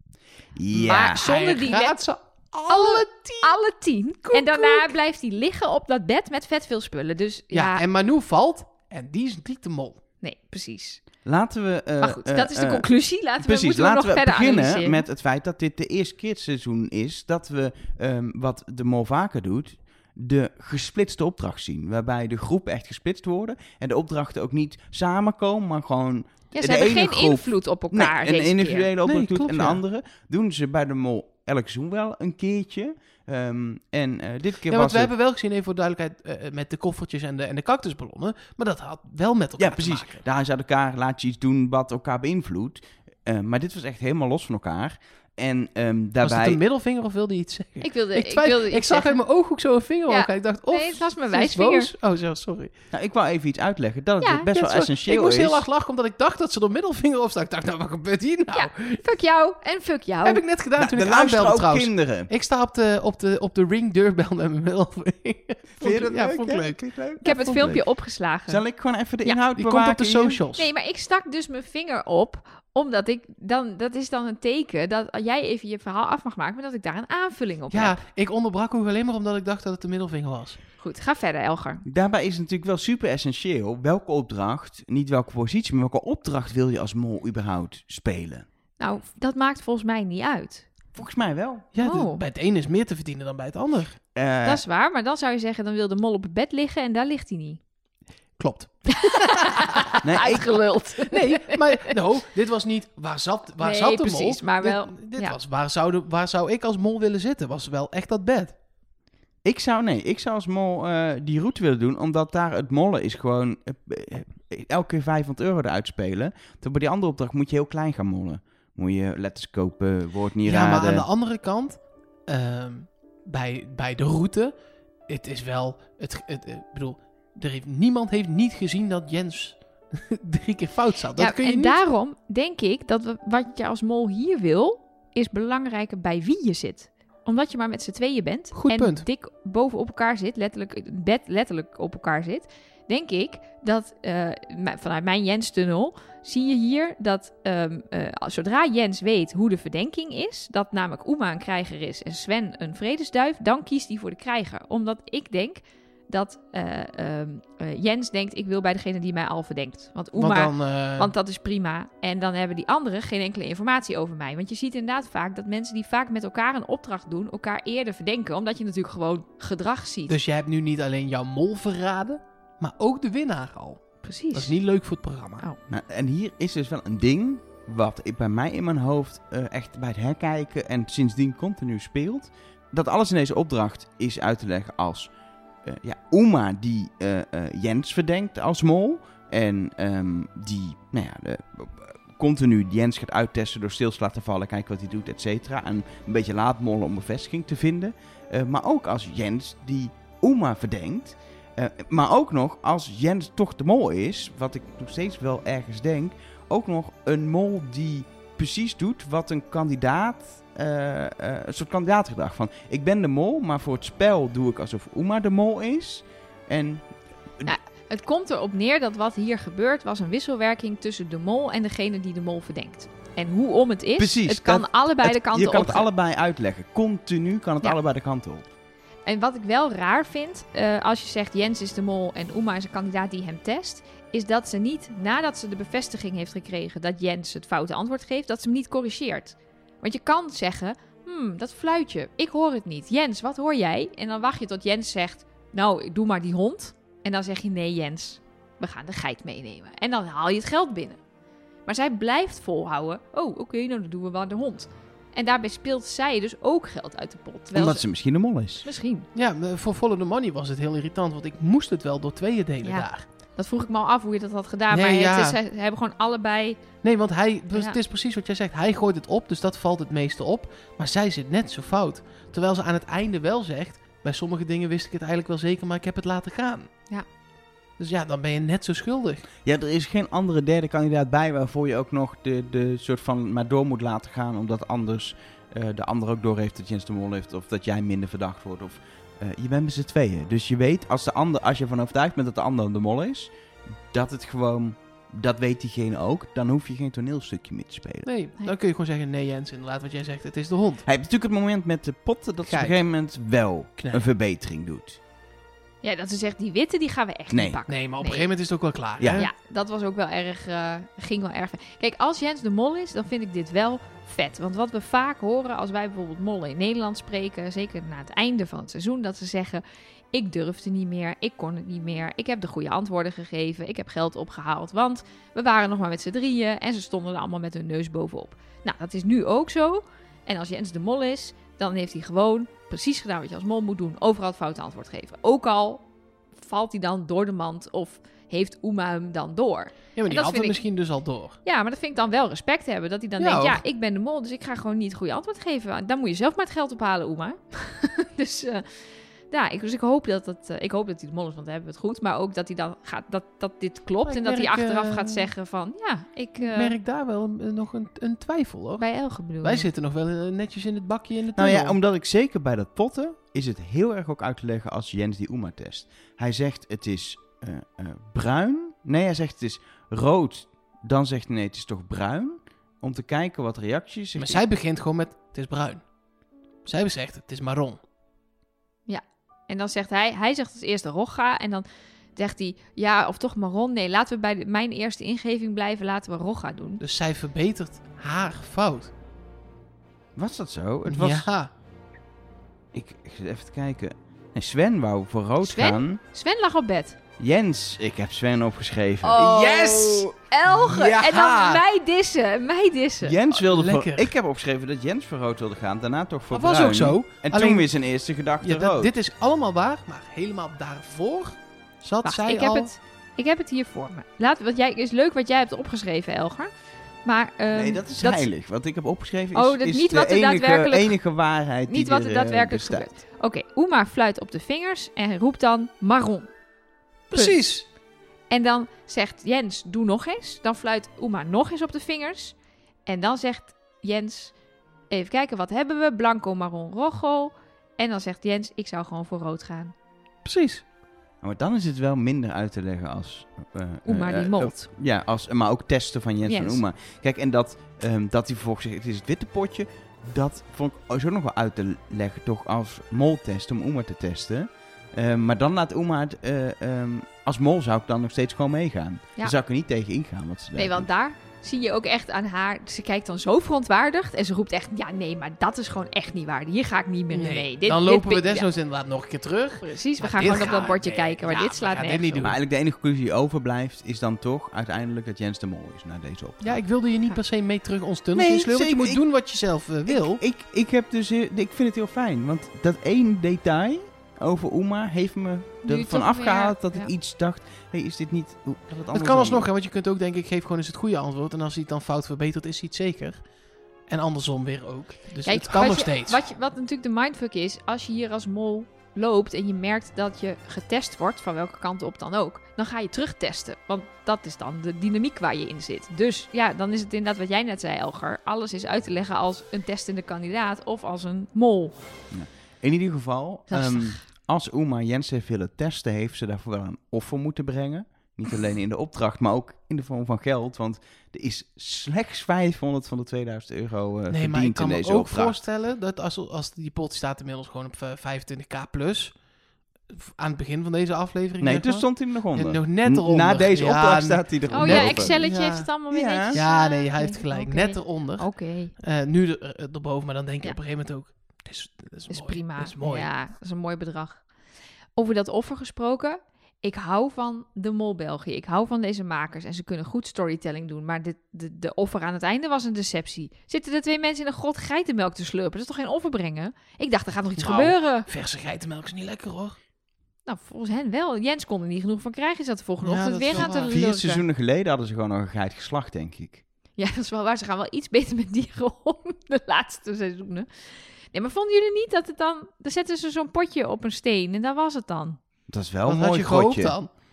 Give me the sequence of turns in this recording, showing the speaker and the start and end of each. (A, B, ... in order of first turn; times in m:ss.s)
0:00.6-0:01.2 A
0:00.7-0:02.0 B
0:01.0-0:03.5 C
0:02.7-0:07.8 B
0:04.2-0:04.9 C
0:07.5-0:10.0 C
0:10.2-0:11.0 B
0:11.2-0:12.9 A
0:12.0-0:15.0 B
0:13.4-0:35.1 A
0:26.5-0:28.9 B
0:29.0-0:29.8 C
0:34.7-0:40.2 C
0:39.6-0:46.6 A
0:46.2-0:52.7 C
0:47.8-0:49.2 B
0:50.1-0:51.9 B
0:52.9-0:55.6 A
0:54.2-0:54.5 B
0:54.5-0:59.0 C
0:58.5-1:00.4 B
1:00.2-1:07.6 C
1:00.8-1:02.3 A
1:05.8-1:07.8 A
1:07.2-1:08.6 B
1:08.5-1:10.4 A
1:09.6-1:10.7 C
1:10.5-1:18.0 B
1:17.7-1:20.6 C
1:20.8-1:21.8 B
1:21.8-1:28.4 A
1:28.8-1:30.7 B
1:30.9-1:31.7 A
1:31.7-1:34.0 C
1:31.8-1:32.2 B
1:34.1-1:34.6 A
1:34.4-1:37.6 B
1:38.4-1:39.8 C
1:39.0-1:41.9 B
1:40.0-1:40.6 A
1:41.1-1:48.5 C
1:43.6-1:45.4 B
1:49.4-2:01.1 A
2:00.4-2:04.5 C
2:05.1-2:11.8 C
2:11.2-2:50.2 B
2:18.5-2:19.0 C
2:40.2-2:41.1 C
2:50.1-2:55.4 C
2:54.0-2:54.5 B
2:55.7-3:05.1 A
3:05.6-3:37.5 A
3:37.4-3:45.9 B
3:44.0-3:48.4 A
3:49.0-4:11.0 B
4:11.6-4:17.8 B
4:17.5-4:18.6 A
4:18.6-4:19.1 B
4:19.1-4:23.0 C
4:22.6-4:26.6 B
4:24.7-4:25.4 C
4:26.8-4:36.7 C
4:27.5-4:27.8 B
4:37.8-4:39.3 C
4:39.4-4:53.3 A
4:53.9-4:58.1 A
4:58.0-5:00.9 C
5:00.8-5:05.0 A
5:02.4-5:02.8 C
5:03.8-5:04.1 C
5:05.8-5:08.3 B
5:07.3-5:07.6 A
5:07.7-5:09.3 C
5:09.0-5:09.2 A
5:09.1-5:35.8 B
5:36.4-5:40.6 B
5:40.0-5:41.4 C
5:41.4-5:48.7 B
5:43.2-5:43.6 C
5:49.3-5:56.7 B
5:54.0-5:55.3 C
5:56.4-5:58.8 C
5:58.8-5:59.7 B
5:59.4-6:01.8 C
6:01.4-6:14.4 A
6:14.2-6:15.8 C
6:16.6-6:17.8 C
6:18.9-6:21.6 B
6:22.2-6:26.8 B
6:26.8-6:28.9 C
6:30.2-6:31.3 A
6:30.8-6:31.5 C
6:32.7-6:36.0 A
6:35.4-6:37.0 B
6:37.2-6:40.1 A
6:39.0-6:43.2 B
6:39.1-6:41.6 C
6:43.0-6:48.9 A
6:43.3-6:44.1 C
6:46.3-6:47.7 C
6:48.4-6:52.7 C
6:52.0-6:56.5 B
6:57.0-6:58.3 B
6:57.5-7:02.9 A
6:59.3-7:00.9 B
7:01.7-7:06.3 B
7:07.1-7:07.6 C
7:08.3-7:12.3 B
7:12.8-7:14.3 B
7:14.9-7:19.7 B
7:20.2-7:20.6 C
7:21.2-7:40.9 A
7:23.8-7:24.7 B
7:26.2-7:26.6 B
7:40.6-7:48.4 B
7:47.1-7:52.4 C
7:49.6-7:52.3 B
7:52.2-7:56.5 A
7:56.4-8:00.2 C
7:58.1-7:59.0 A
7:59.9-8:09.5 A
8:05.6-8:06.9 B
8:08.9-8:13.2 C
8:13.9-8:16.2 C
8:15.2-8:31.8 B
8:32.1-8:45.4 A
8:33.5-8:34.0 B
8:44.1-8:49.1 C
8:49.9-8:55.7 C
8:51.4-8:55.2 A
8:54.5-8:58.7 B
8:55.9-8:56.4 A
8:56.3-9:03.1 C
9:02.1-9:04.2 B
9:05.0-9:18.1 B
9:17.4-9:19.6 C
9:20.3-9:24.2 B
9:22.8-9:23.8 C
9:23.3-9:26.4 A
9:26.8-9:30.5 B
9:31.1-9:35.2 B
9:35.5-9:36.8 A
9:35.8-9:36.9 C